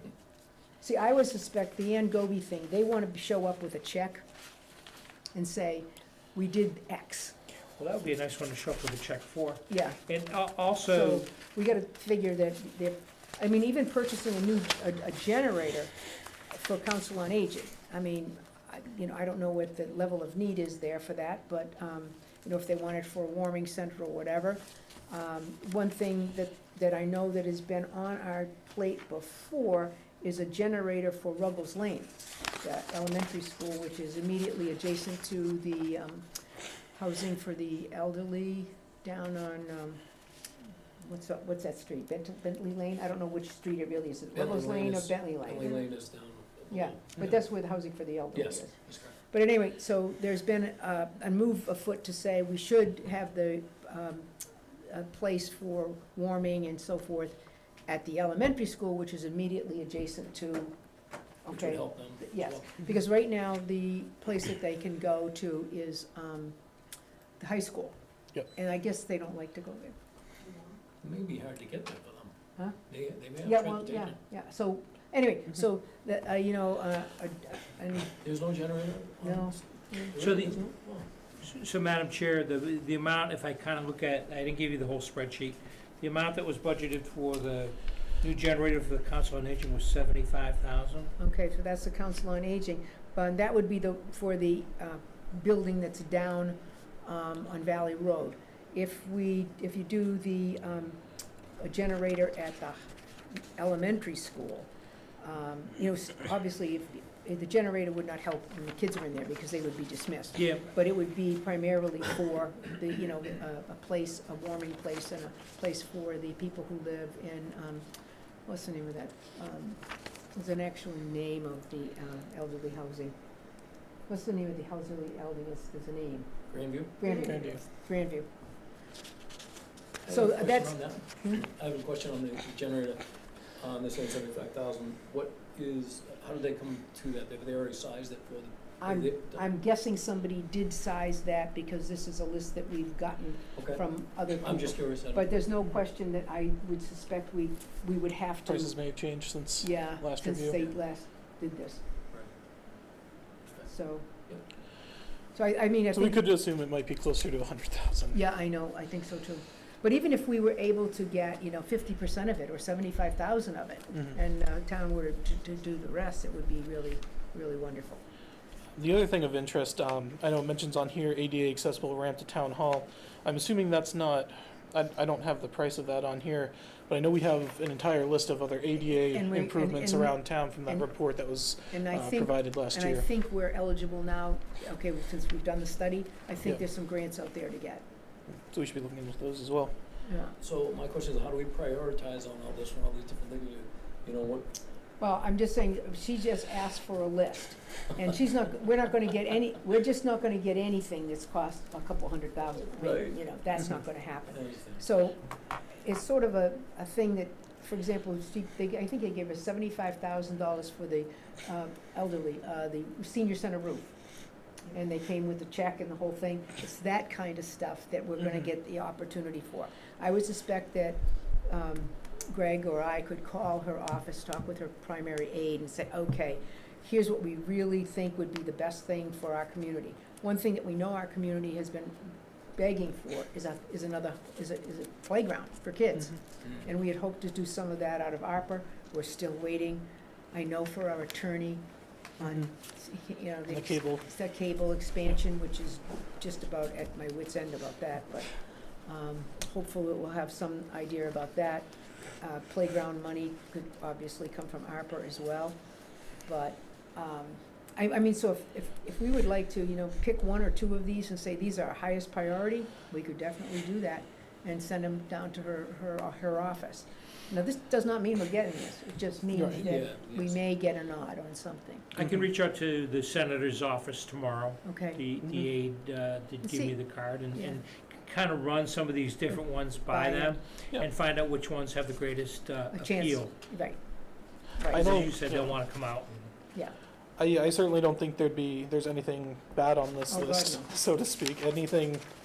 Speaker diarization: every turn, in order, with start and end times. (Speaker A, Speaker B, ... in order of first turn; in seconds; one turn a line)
Speaker A: 0.8-4.2
Speaker A: 5.3-7.4
Speaker B: 7.8-11.2
Speaker A: 9.7-10.0
Speaker A: 10.8-15.9
Speaker A: 16.5-36.3
Speaker A: 36.9-40.0
Speaker A: 41.0-45.8
Speaker C: 44.3-47.4
Speaker A: 46.7-60.7
Speaker C: 48.3-49.2
Speaker A: 61.5-66.5
Speaker C: 61.5-62.9
Speaker A: 67.4-67.9
Speaker A: 68.5-70.0
Speaker C: 71.0-72.3
Speaker C: 72.9-74.2
Speaker A: 73.4-78.2
Speaker C: 78.2-81.0
Speaker A: 79.2-80.6
Speaker B: 80.2-80.6
Speaker B: 81.3-91.1
Speaker A: 91.2-101.0
Speaker A: 101.6-102.8
Speaker A: 103.3-104.7
Speaker A: 105.2-117.9
Speaker B: 110.3-110.7
Speaker A: 118.5-119.8
Speaker A: 120.3-123.1
Speaker A: 124.1-128.3
Speaker C: 126.5-127.1
Speaker D: 127.1-127.6
Speaker C: 130.0-139.4
Speaker A: 130.1-131.4
Speaker A: 138.8-148.7
Speaker C: 143.6-143.8
Speaker C: 144.4-145.3
Speaker D: 148.4-150.6
Speaker A: 149.6-151.8
Speaker A: 153.7-154.1
Speaker A: 155.3-156.2
Speaker D: 155.9-158.2
Speaker A: 158.1-168.0
Speaker D: 168.8-183.1
Speaker A: 178.9-180.9
Speaker A: 181.7-187.8
Speaker D: 188.3-189.7
Speaker A: 190.0-190.4
Speaker C: 190.4-194.5
Speaker A: 195.0-205.2
Speaker C: 202.8-203.2
Speaker C: 204.3-204.8
Speaker A: 205.8-213.9
Speaker A: 214.7-241.6
Speaker A: 242.2-248.3
Speaker D: 243.5-244.0
Speaker A: 248.8-255.6
Speaker A: 256.2-271.9
Speaker D: 269.3-269.7
Speaker C: 269.5-270.4
Speaker B: 271.9-283.3
Speaker A: 274.6-275.0
Speaker A: 276.4-276.8
Speaker A: 277.3-277.6
Speaker A: 279.9-280.3
Speaker A: 282.7-283.8
Speaker A: 284.5-284.9
Speaker B: 284.7-286.3
Speaker D: 284.7-285.6
Speaker D: 287.2-292.1
Speaker A: 290.1-290.7